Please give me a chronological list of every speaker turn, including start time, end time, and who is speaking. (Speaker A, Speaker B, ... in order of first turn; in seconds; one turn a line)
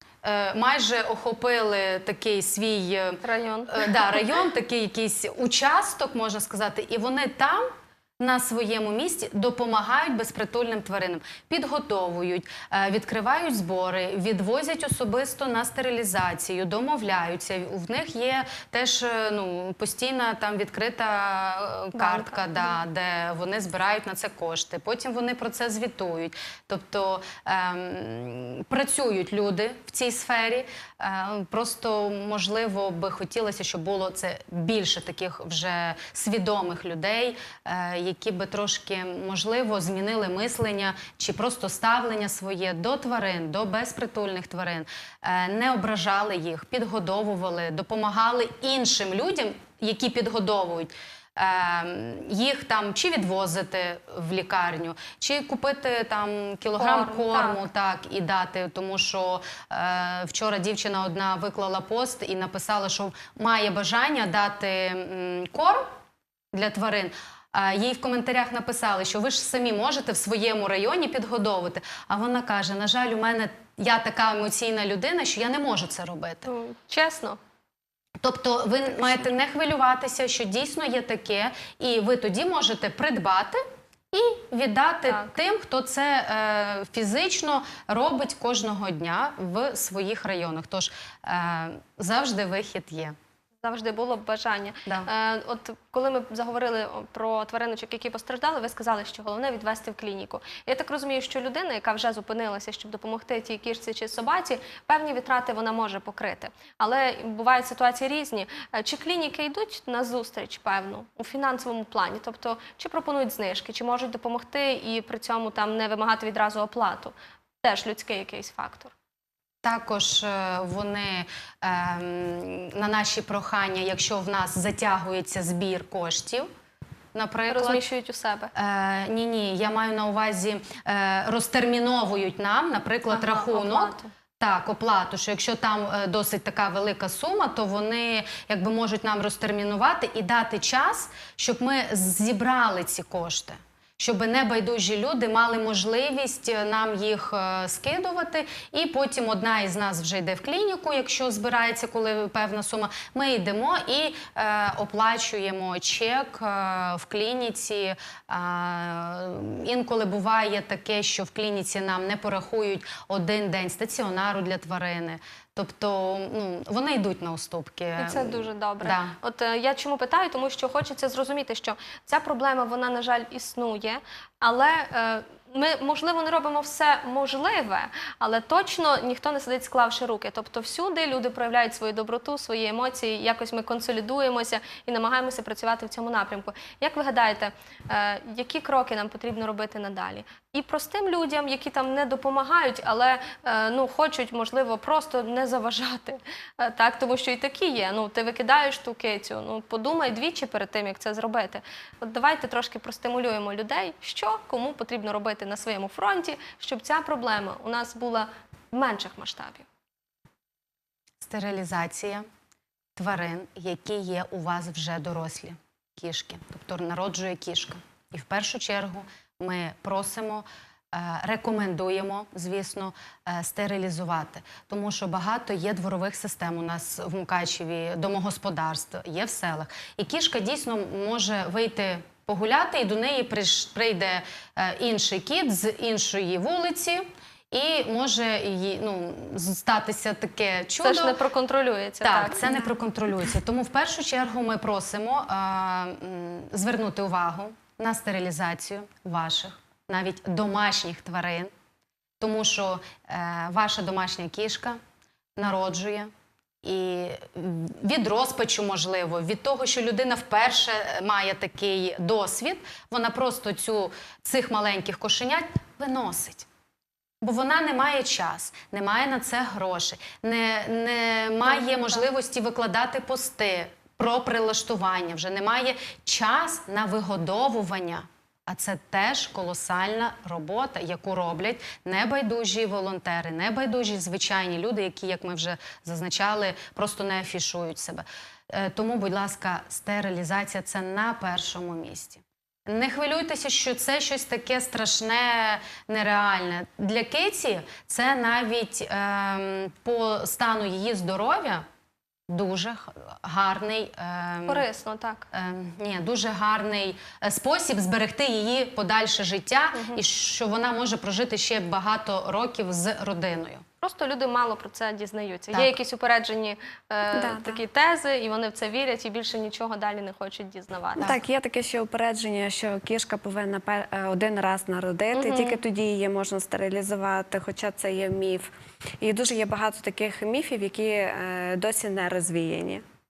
Speaker A: 0.2-7.7
Speaker B: 3.2-4.0
Speaker A: 8.2-65.8
Speaker B: 21.9-22.8
Speaker B: 56.8-57.6
Speaker A: 66.5-76.5
Speaker B: 76.5-77.4
Speaker A: 78.2-83.6
Speaker A: 84.1-93.1
Speaker B: 85.1-85.3
Speaker B: 93.6-118.9
Speaker A: 119.6-126.5
Speaker A: 127.1-127.8
Speaker B: 127.5-128.5
Speaker A: 128.5-169.1
Speaker B: 133.1-134.1
Speaker B: 168.0-209.7
Speaker A: 211.2-212.2
Speaker A: 212.9-241.2
Speaker B: 240.8-242.7
Speaker A: 242.0-251.5
Speaker A: 252.2-254.8
Speaker A: 255.4-256.1
Speaker A: 256.6-266.4
Speaker A: 267.2-301.6
Speaker B: 271.4-272.0
Speaker A: 302.3-304.6
Speaker B: 304.5-305.2
Speaker A: 305.3-313.6
Speaker B: 309.7-310.0
Speaker B: 313.8-321.2
Speaker A: 315.5-315.8
Speaker C: 317.1-317.6
Speaker C: 321.0-332.8
Speaker B: 325.1-325.6